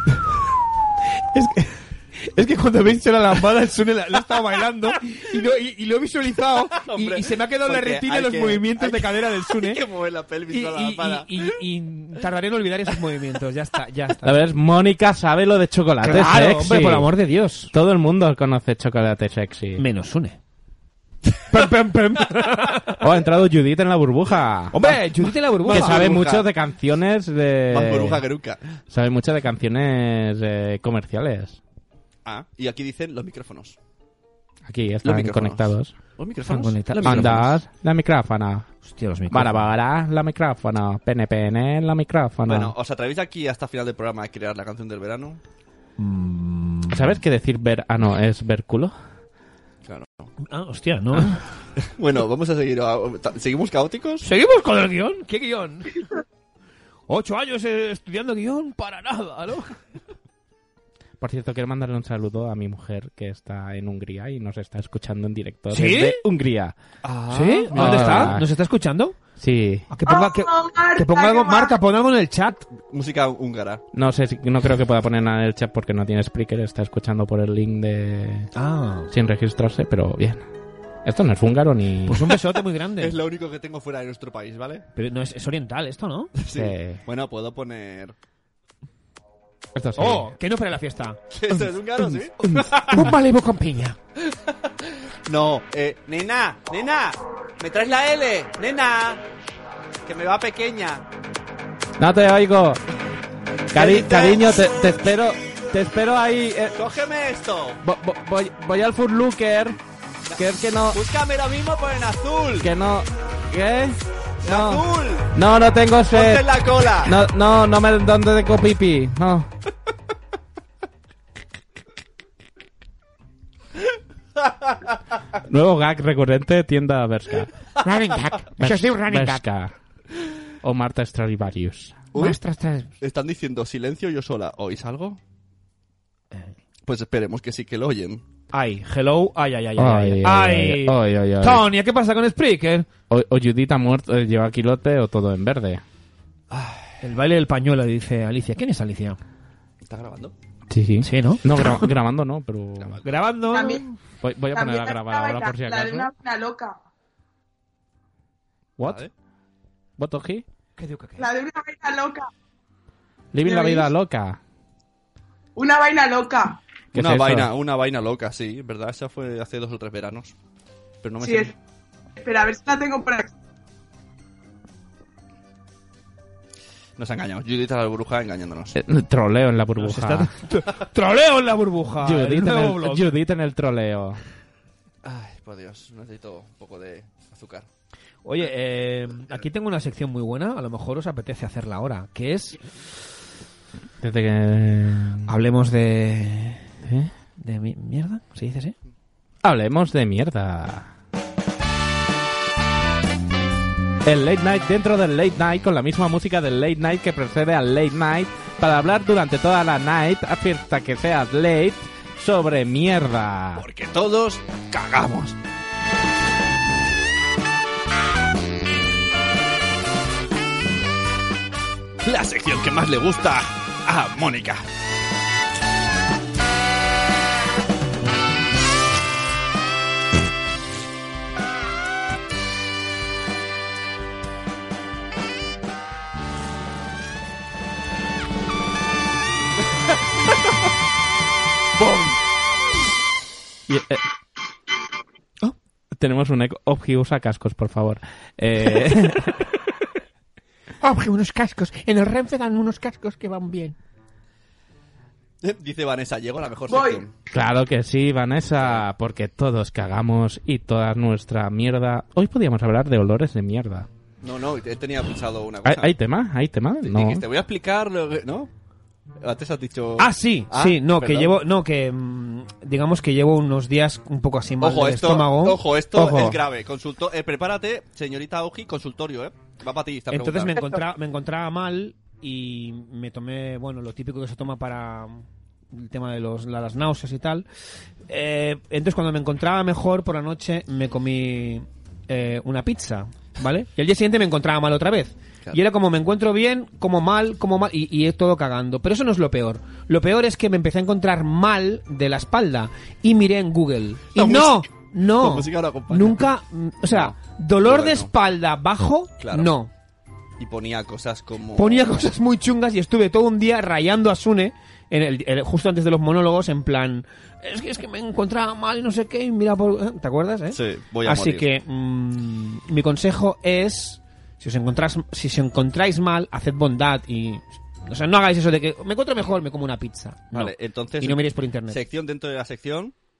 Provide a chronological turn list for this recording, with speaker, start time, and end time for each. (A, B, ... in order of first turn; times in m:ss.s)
0:01.3-0:09.8 A
0:06.8-0:11.4 B
0:10.5-0:14.4 A
0:14.2-0:17.1 C
0:16.0-0:17.7 A
0:17.7-0:19.8 C
0:19.8-0:20.4 A
0:21.5-0:23.0 A
0:23.0-0:25.0 C
0:24.7-0:26.2 A
0:25.6-0:26.5 B
0:25.7-0:28.2 C
0:27.7-0:28.6 B
0:28.9-0:31.6 C
0:32.2-0:33.8 B
0:34.7-0:35.9 C
0:35.0-0:37.6 B
0:36.4-0:37.4 A
0:37.0-0:38.7 C
0:38.8-0:39.7 A
0:39.3-0:42.7 C
0:42.4-0:45.4 B
0:46.0-0:47.2 A
0:46.9-0:48.9 C
0:49.8-0:50.3 B
0:50.4-0:51.4 A
0:51.8-0:54.2 B
0:54.2-0:56.0 A
0:57.1-0:59.7 A
1:01.2-1:06.7 C
1:05.7-1:06.2 A
1:07.0-1:08.4 B
1:07.3-1:09.2 A
1:07.7-1:08.5 C
1:09.4-1:09.8 C
1:09.9-1:12.6 A
1:10.0-1:11.8 D
1:12.8-1:13.8 B
1:13.9-1:18.5 C
1:18.5-1:19.1 A
1:19.1-1:20.4 C
1:21.0-1:22.3 C
1:22.1-1:23.2 A
1:23.0-1:24.8 B
1:25.0-1:26.3 A
1:26.4-1:28.1 B
1:26.5-1:27.0 C
1:29.7-1:30.3 C
1:30.0-1:34.0 A
1:31.3-1:33.1 B
1:34.2-1:39.2 B
1:40.0-1:41.0 B
1:42.0-1:42.8 C
1:43.7-1:46.8 C
1:43.7-1:44.7 B
1:46.7-1:47.8 B
1:47.8-1:49.8 C
1:50.3-1:52.7 B
1:50.4-1:51.0 C
1:52.6-1:59.5 C
1:54.4-1:55.3 B
1:56.1-1:57.2 B
2:05.5-2:07.5 C
2:07.8-2:09.4 A
2:08.6-2:09.7 C
2:10.6-2:12.0 C
2:12.1-2:12.4 B
2:12.1-2:12.9 A
2:13.0-2:15.2 B
2:16.8-2:18.2 B
2:18.5-2:22.9 A
2:19.8-2:21.6 C
2:23.1-2:25.8 C
2:26.5-2:27.0 B
2:27.0-2:29.2 A
2:29.8-2:30.3 B
2:30.7-2:33.0 C
2:31.0-2:31.9 A
2:33.0-2:34.0 A
2:33.5-2:33.8 D
2:34.2-2:36.1 C
2:34.5-2:36.8 D
2:38.8-2:39.0 C
2:38.8-2:39.1 B
2:40.0-2:40.4 C
2:40.8-2:41.3 A
2:41.2-2:42.3 D
2:43.3-2:44.4 C
2:43.4-2:43.9 D
2:45.6-2:46.6 D
2:46.9-2:47.5 C
2:46.9-2:50.3 B
2:51.0-2:51.5 B
2:51.2-2:51.5 D
2:52.2-2:53.3 D
2:57.0-2:58.7 B
2:58.7-3:00.3 C
2:59.8-3:03.1 A
3:02.0-3:04.2 C
3:05.0-3:07.7 B
3:08.2-3:12.6 A
3:14.0-3:15.4 C
3:15.3-3:16.7 A
3:16.8-3:17.1 C
3:17.4-3:18.7 A
3:19.4-3:20.9 C
3:24.0-3:33.6 C
3:33.6-3:35.4 B
3:42.0-3:44.6 B
4:03.7-4:04.0 C
4:06.0-4:09.3 C
4:10.8-4:13.7 A
4:15.4-4:17.1 B
4:16.7-4:17.0 D
4:17.3-4:23.9 C
4:18.6-4:18.8 B
4:24.2-4:25.9 B
4:25.6-4:27.2 C
4:26.8-4:28.5 B
4:29.2-4:31.3 B
4:30.0-4:36.4 A
4:34.6-4:40.7 B
4:40.1-4:47.4 A
4:48.1-5:09.7 A
5:04.2-5:06.2 B
5:06.8-5:08.1 B
5:09.2-5:09.5 B
5:10.4-5:12.0 B
5:11.6-5:31.8 A
5:20.5-5:21.4 B
5:30.3-5:32.9 B